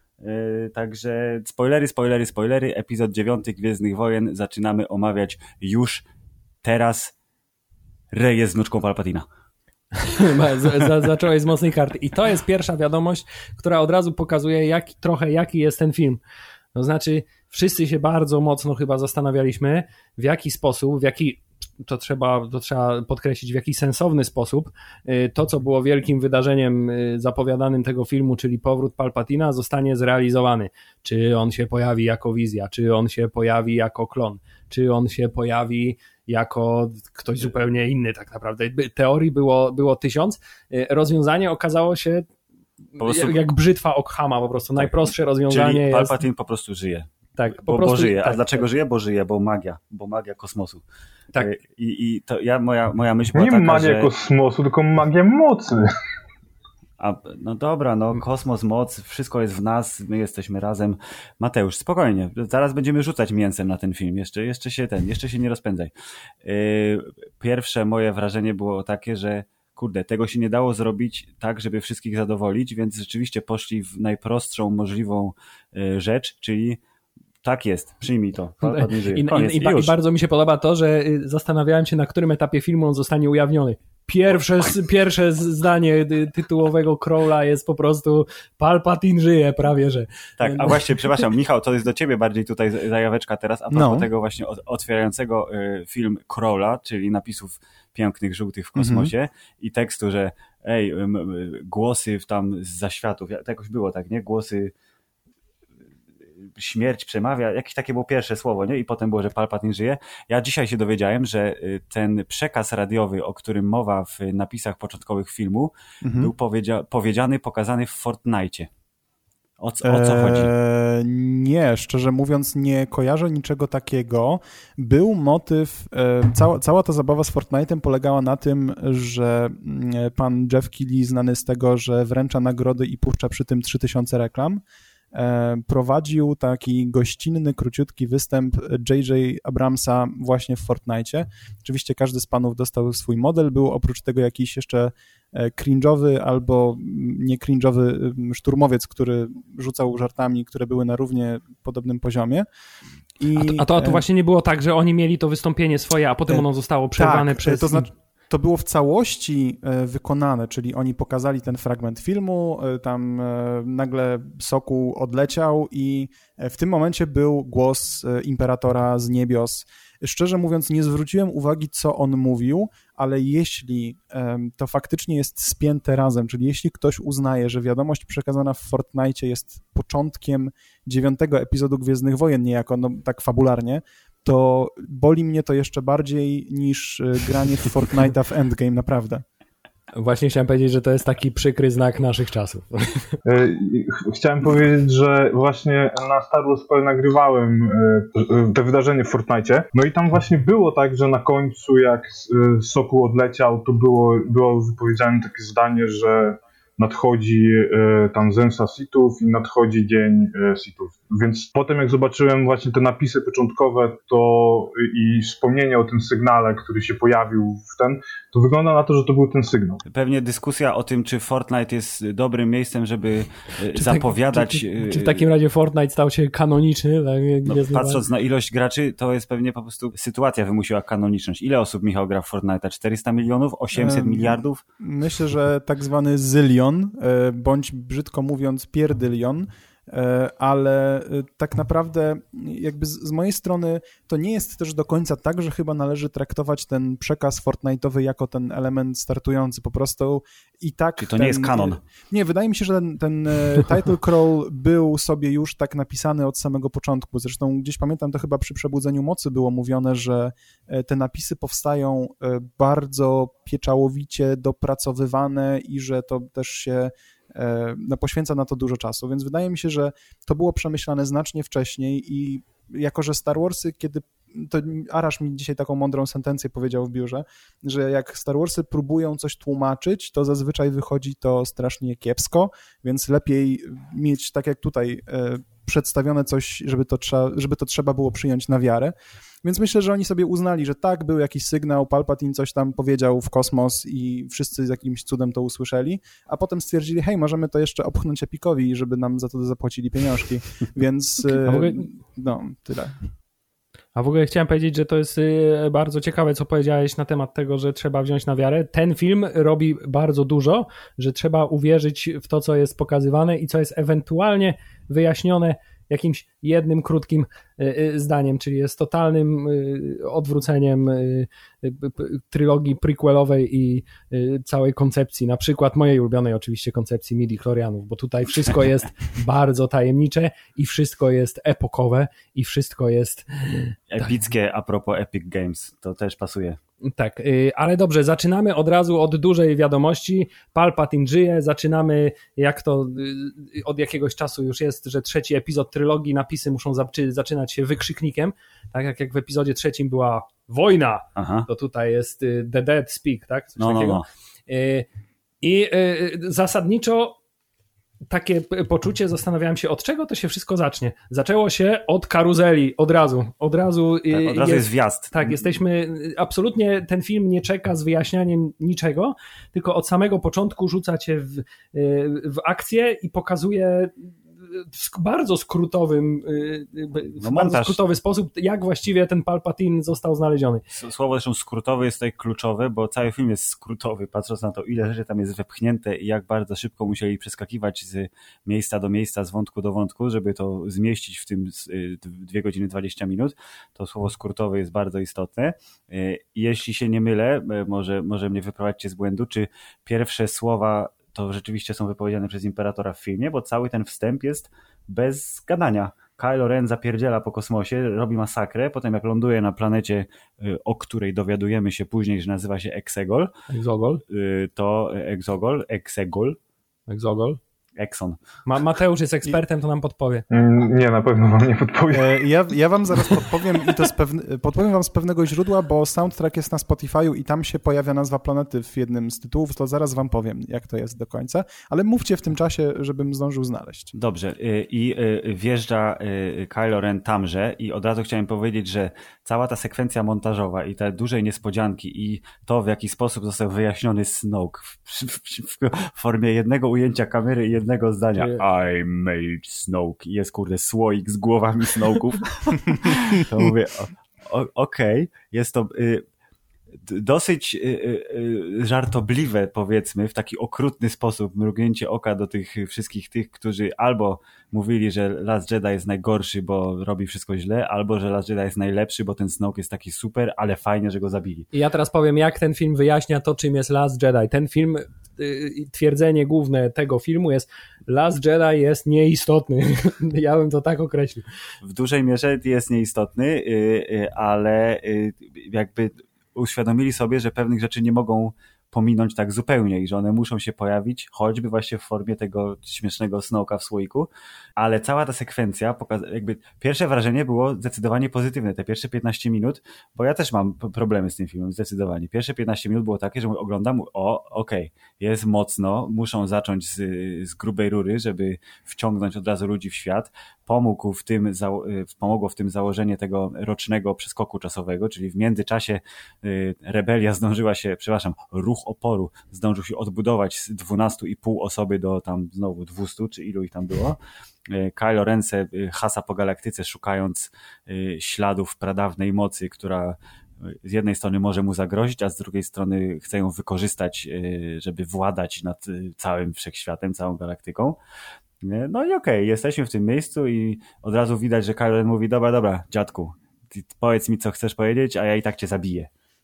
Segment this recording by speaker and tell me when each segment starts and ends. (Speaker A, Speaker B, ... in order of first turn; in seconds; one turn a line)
Speaker A: 0.2-6.1
Speaker A: 6.6-7.1
Speaker A: 8.1-9.3
Speaker B: 10.0-16.2
Speaker B: 16.8-42.3
Speaker B: 43.0-46.2
Speaker A: 43.0-43.4
Speaker A: 44.8-50.8
Speaker B: 47.4-48.6
Speaker A: 51.4-54.1
Speaker C: 53.4-55.9
Speaker A: 57.0-65.9
Speaker A: 66.4-76.8
Speaker A: 77.4-80.0
Speaker B: 78.6-91.1
Speaker A: 90.4-104.7
Speaker D: 93.7-94.1
Speaker D: 98.8-99.1
Speaker A: 106.4-118.7
Speaker D: 116.0-116.3
Speaker A: 119.6-120.5
Speaker D: 119.8-134.6
Speaker D: 135.1-152.5
Speaker D: 153.2-154.0
Speaker B: 153.4-157.9
Speaker D: 157.0-189.2
Speaker B: 190.0-193.2
Speaker C: 193.2-219.8
Speaker A: 219.9-225.3
Speaker B: 223.7-228.0
Speaker A: 227.5-234.6
Speaker D: 233.7-303.0
Speaker A: 251.0-251.8
Speaker B: 301.4-301.9
Speaker B: 303.9-334.1
Speaker A: 333.9-336.6
Speaker B: 336.8-354.9
Speaker A: 351.2-351.5
Speaker A: 353.6-354.1
Speaker B: 355.4-357.2
Speaker B: 358.1-380.6
Speaker A: 364.1-365.6
Speaker A: 377.2-377.8
Speaker A: 380.7-413.3
Speaker B: 413.5-414.0
Speaker A: 414.1-416.4
Speaker B: 416.9-417.4
Speaker A: 417.8-418.2
Speaker B: 418.5-420.2
Speaker C: 420.3-422.2
Speaker D: 421.9-433.9
Speaker A: 433.9-456.0
Speaker A: 456.8-471.5
Speaker B: 471.5-481.3
Speaker A: 481.6-524.0
Speaker A: 524.5-537.8
Speaker A: 538.4-545.9